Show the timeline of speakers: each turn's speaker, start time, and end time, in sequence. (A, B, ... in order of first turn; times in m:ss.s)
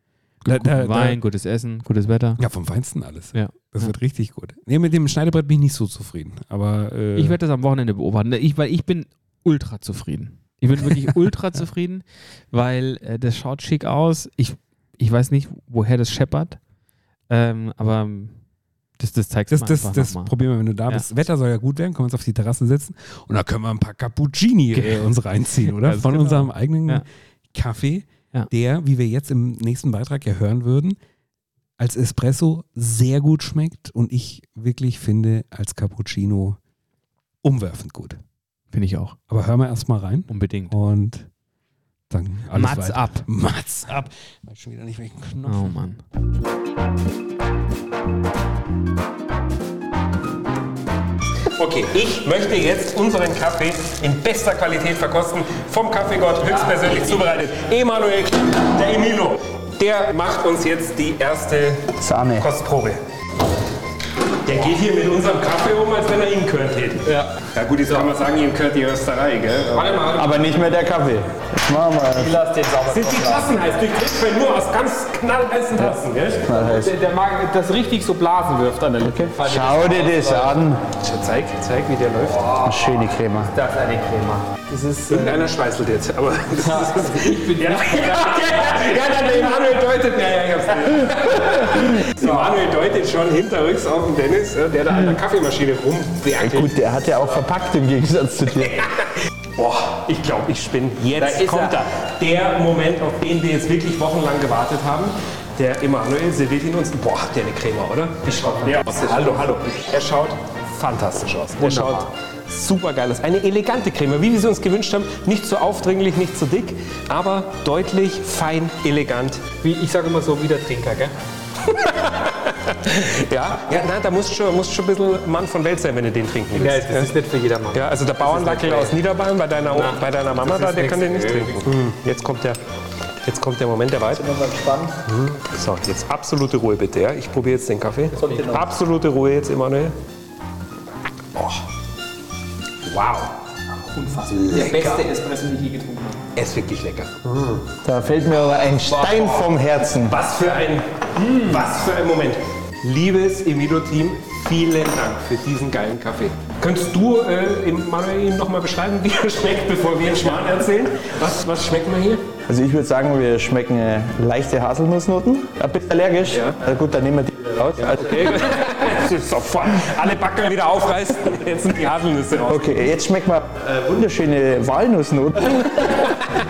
0:00.4-0:01.2 A
0:00.4-0:02.4 B
0:02.4-0:07.4 A
0:03.3-0:03.9 B
0:07.1-0:16.6 B
0:10.8-0:11.1 A
0:17.3-0:18.4 B
0:19.0-0:20.3 B
0:19.5-0:31.0 A
0:24.7-0:27.0 B
0:31.8-0:36.6 A
0:37.4-0:38.2 A
0:38.7-0:39.2 B
0:39.3-0:41.3 A
0:40.3-0:40.8 B
0:42.1-0:45.8 A
0:42.5-0:43.2 B
0:45.4-0:46.0 B
0:51.5-1:03.0 C
1:02.0-1:02.5 D
1:04.4-1:10.2 C
1:07.0-1:07.4 E
1:09.7-1:10.6 E
1:10.1-1:12.4 D
1:12.1-1:13.6 E
1:12.9-1:16.6 C
1:15.8-1:17.0 D
1:16.6-1:20.6 E
1:19.0-1:20.8 D
1:21.0-1:22.5 C
1:22.2-1:25.5 E
1:22.6-1:23.5 D
1:25.0-1:36.8 C
1:26.6-1:29.2 E
1:31.5-1:32.5 E
1:36.3-1:38.9 D
1:39.5-1:59.5 C
1:41.2-1:41.8 E
1:48.3-1:49.4 E
1:51.6-1:52.1 E
1:59.6-2:01.1 E
2:01.6-2:07.1 C
2:06.5-2:09.0 E
2:07.7-2:12.6 C
2:09.6-2:11.7 E
2:13.2-2:14.2 C
2:14.2-2:14.9 D
2:15.0-2:19.9 C
2:18.2-2:18.6 E
2:21.4-2:21.6 C
2:22.8-2:23.3 C
2:23.9-2:26.2 E
2:24.3-2:25.0 C
2:26.3-2:27.6 C
2:27.8-2:30.2 D
2:28.8-2:29.2 E
2:29.0-2:29.4 C
2:30.0-2:42.2 C
2:31.2-2:31.5 E
2:42.5-2:48.4 D
2:46.3-2:46.6 C
2:47.8-2:52.9 C
2:52.5-2:56.2 D